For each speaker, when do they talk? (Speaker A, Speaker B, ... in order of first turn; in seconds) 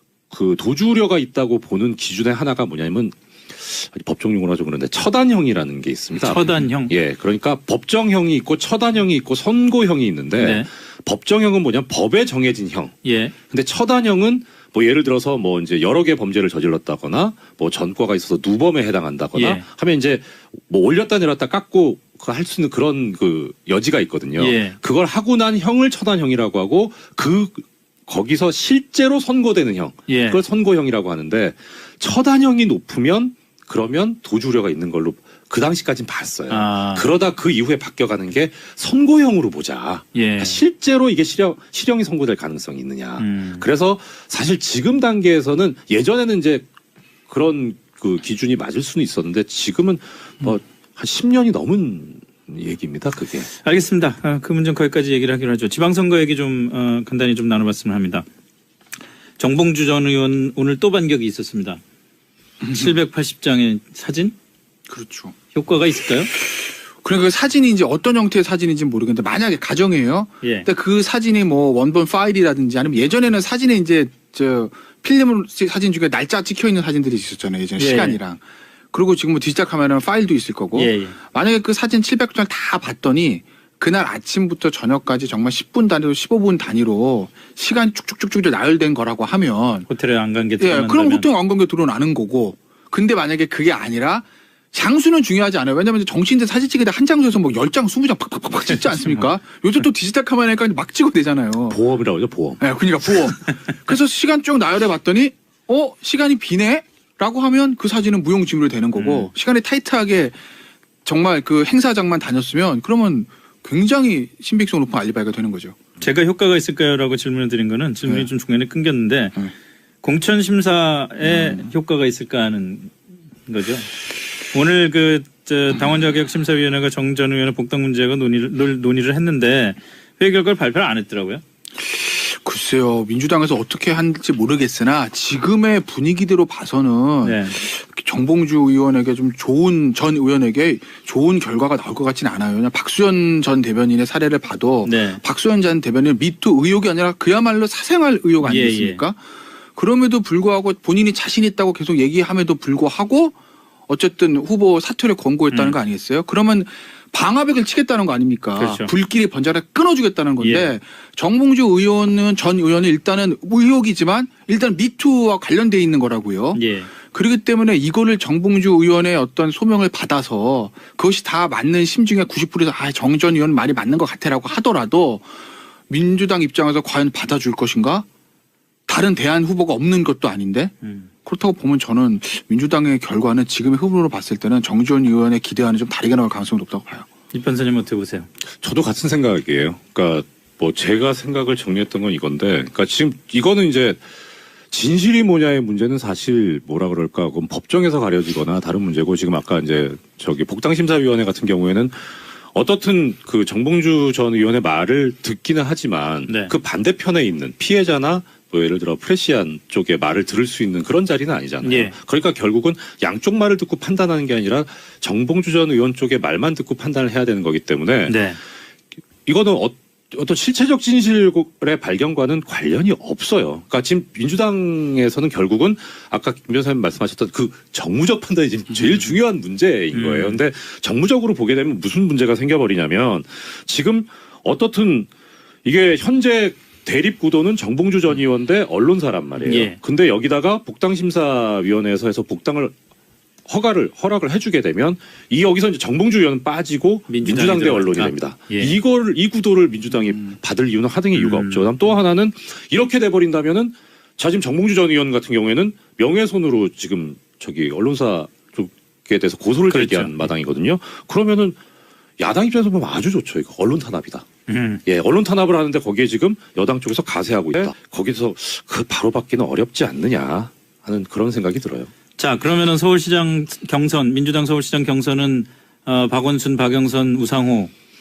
Speaker A: 0.3-12.9, 13.5-46.7, 47.3-53.5, 101.7-102.6, 188.6-194.0, 194.7-218.2, 219.3-235.1, 235.7-242.7, 243.5-261.6, 262.2-264.3, 264.9-271.9
Speaker B: 6.2-6.9, 10.4-10.7, 13.0-13.3, 19.4-19.6, 24.4-24.8, 30.1-30.4, 36.5-37.0, 40.1-40.6, 43.2-43.7, 53.5-58.3, 59.4-61.8, 62.7-64.3, 65.5-66.3, 70.4-70.7, 77.8-78.2, 80.8-81.2, 89.9-91.3, 109.0-109.3, 116.0-119.4, 120.0-122.9, 123.5-131.4, 137.2-137.6, 144.8-145.2, 148.4-149.0, 155.5-155.8, 158.6-158.9, 160.4-160.7, 166.6-166.9, 187.3-188.3, 206.3-206.5, 211.6-211.9, 218.1-218.4, 229.9-230.4, 239.4-239.8, 247.1-248.8, 251.2-251.7, 259.7-260.3, 264.5-264.8, 272.2-277.7
Speaker C: 62.6-62.9, 64.9-65.3, 67.0-78.4, 78.9-89.9, 90.6-101.8, 102.6-110.4, 111.0-115.8, 121.2-121.7, 131.8-149.2, 149.8-153.3, 153.9-175.3, 175.9-178.1, 178.9-180.7, 181.2-187.1